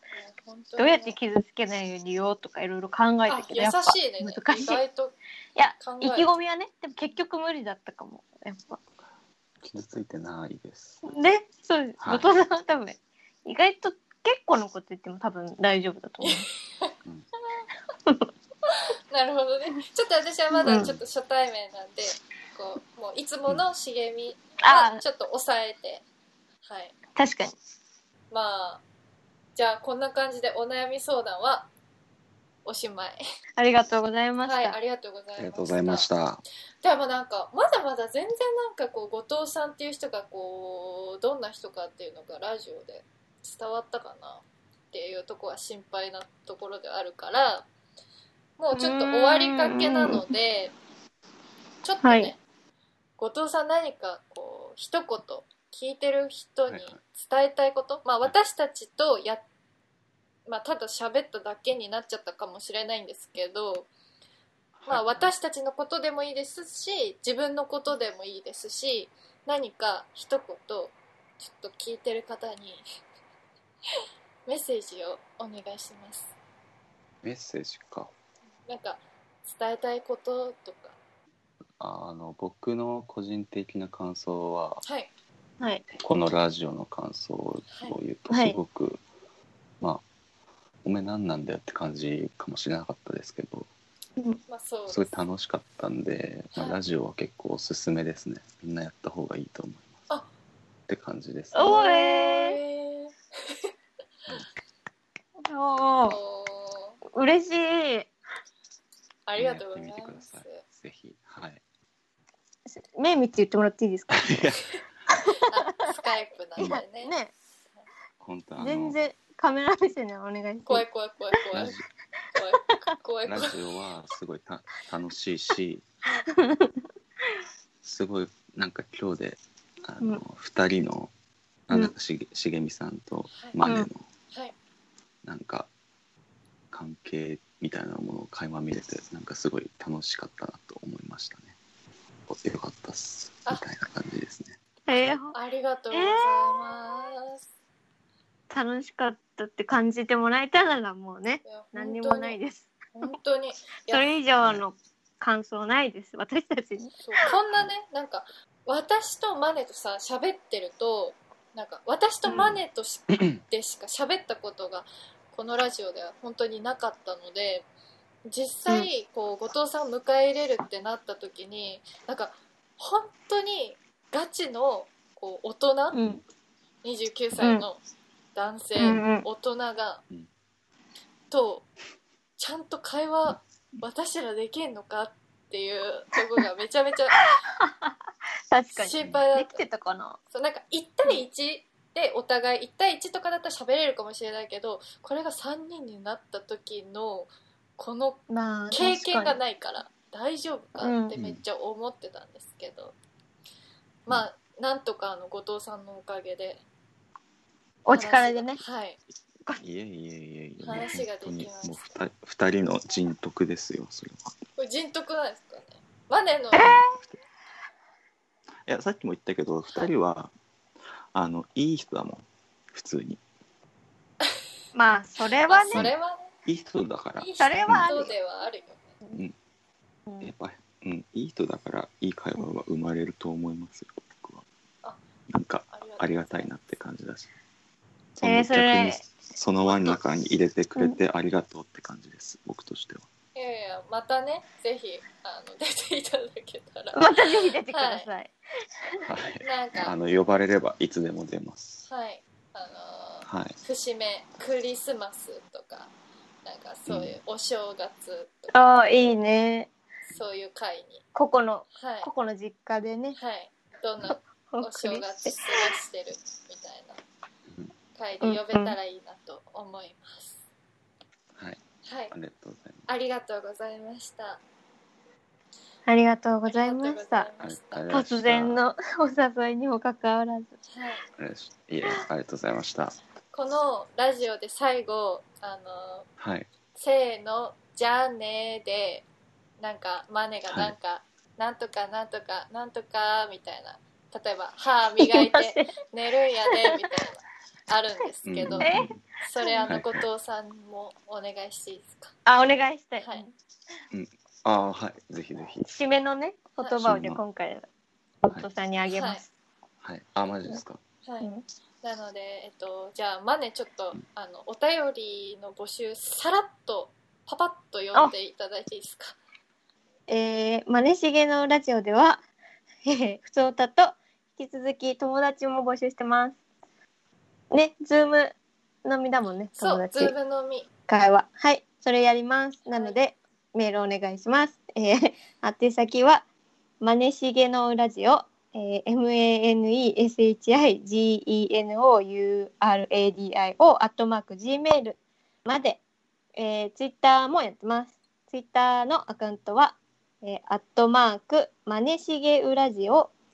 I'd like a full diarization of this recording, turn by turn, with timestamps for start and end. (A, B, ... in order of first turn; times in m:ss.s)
0:00.2-0:01.2 A
0:00.8-0:04.8 B
0:03.3-0:05.1 A
0:05.6-0:08.8 B
0:05.8-0:06.3 A
0:09.6-0:11.0 C
0:11.0-0:16.4 B
0:12.0-0:12.2 C
0:16.2-0:16.9 A
0:18.6-0:26.0 A
0:20.6-0:20.9 B
0:24.6-0:25.0 B
0:26.6-0:26.9 A
0:27.1-0:27.6 B
0:28.3-0:28.8 A
0:29.6-0:31.7 A
0:32.6-0:33.2 A
0:33.6-0:34.8 B
0:34.4-0:36.1 A
0:35.4-0:36.4 C
0:36.8-0:47.7 A
0:48.6-0:50.7 A
0:48.7-0:50.3 B
0:51.8-0:52.4 A
0:52.0-0:52.3 B
0:53.2-0:59.4 A
0:56.7-0:57.0 C
1:00.5-1:03.9 A
1:04.8-1:05.3 C
1:04.9-1:12.8 A
1:14.4-1:16.3 A
1:17.2-1:18.1 C
1:18.7-1:21.0 A
1:21.8-1:24.8 C
1:24.8-1:25.1 A
1:26.0-1:29.0 C
1:28.3-1:28.6 B
1:30.8-1:33.7 C
1:34.5-1:35.1 A
1:34.9-1:39.8 C
1:40.9-1:41.8 C
1:41.5-1:42.6 B
1:41.6-1:43.7 A
1:45.4-1:46.2 B
1:46.0-1:47.0 A
1:47.1-1:48.1 B
1:49.3-1:50.6 A
1:49.4-1:51.6 C
1:52.7-1:54.3 B
1:54.1-1:54.7 C
1:55.2-1:55.9 B
1:55.5-1:57.1 A
1:56.6-1:57.3 B
1:58.2-1:59.0 C
1:58.6-2:00.8 B
2:00.6-2:01.8 A
2:01.5-2:01.8 C
2:02.3-2:03.5 A
2:03.2-2:05.9 C
2:06.3-2:06.8 B
2:07.8-2:11.1 C
2:11.7-2:14.0 C
2:15.2-2:15.7 C
2:16.7-2:21.5 C
2:22.3-2:24.6 C
2:24.9-2:25.3 B
2:25.3-2:27.4 A
2:25.9-2:26.6 B
2:28.5-2:32.7 B
2:31.4-2:32.4 A
2:32.9-2:34.1 A
2:33.9-2:37.3 B
2:37.0-2:47.7 A
2:42.3-2:42.6 C
2:48.3-2:56.0 A
2:55.9-2:56.2 B
2:56.8-2:57.8 A
2:57.4-2:57.6 B
2:58.3-3:00.0 A
2:58.8-2:59.2 B
3:01.3-3:01.6 A
3:02.4-3:07.2 A
3:07.6-3:08.0 B
3:08.5-3:10.2 B
3:08.8-3:09.6 A
3:10.3-3:22.9 A
3:18.3-3:19.4 B
3:20.8-3:21.1 B
3:21.1-3:21.4 C
3:24.1-3:26.6 A
3:27.8-3:28.6 B
3:27.9-3:29.0 A
3:29.6-3:34.3 C
3:30.6-3:31.8 A
3:34.6-3:36.8 A
3:36.5-3:36.9 B
3:36.6-3:37.2 C
3:38.6-3:40.3 C
3:41.1-3:43.2 C
3:44.7-3:45.9 B
3:45.5-3:46.3 A
3:46.4-3:48.0 C
3:47.2-3:48.9 A
3:47.4-3:48.1 B
3:50.2-3:54.4 C
3:55.3-3:57.3 C
3:55.7-3:56.5 A
3:58.2-4:03.0 C
3:58.2-3:59.0 B
4:03.3-4:07.0 A
4:06.9-4:08.3 B
4:07.7-4:08.1 A
4:09.0-4:11.9 C
4:09.4-4:09.9 A
4:11.9-4:15.9 A
4:13.2-4:13.6 C
4:16.4-4:18.6 A
4:16.9-4:17.2 C
4:18.5-4:19.7 B
4:20.1-4:21.0 A
4:21.1-4:23.2 B
4:21.7-4:22.1 A
4:23.1-4:27.0 A
4:24.5-4:25.4 B
4:27.9-4:30.4 A
4:28.2-4:28.8 B
4:31.8-4:32.1 A
4:32.1-4:32.8 C
4:32.9-4:34.4 A
4:35.8-4:37.3 B
4:36.5-4:37.9 A
4:37.4-4:38.6 C
4:37.9-4:40.5 B
4:40.7-4:41.0 A
4:41.2-4:43.0 C
4:43.3-4:46.0 A
4:46.2-4:46.5 C
4:46.7-4:49.1 A
4:49.6-5:02.1 A
4:55.0-4:55.7 B
4:58.3-4:59.0 C
4:58.6-4:58.9 B
4:59.6-5:00.0 C
5:02.2-5:03.3 B
5:03.9-5:05.7 C
5:05.6-5:07.7 B
5:06.8-5:07.2 C
5:08.2-5:09.3 B
5:08.9-5:09.2 A
5:09.8-5:10.8 C
5:11.0-5:19.2 A
5:20.1-5:22.2 B
5:22.8-5:26.4 B
5:27.5-5:30.1 B
5:29.6-5:30.7 A
5:30.9-5:36.2 B
5:32.7-5:33.0 A
5:36.8-5:45.8 B
5:46.4-5:53.1 B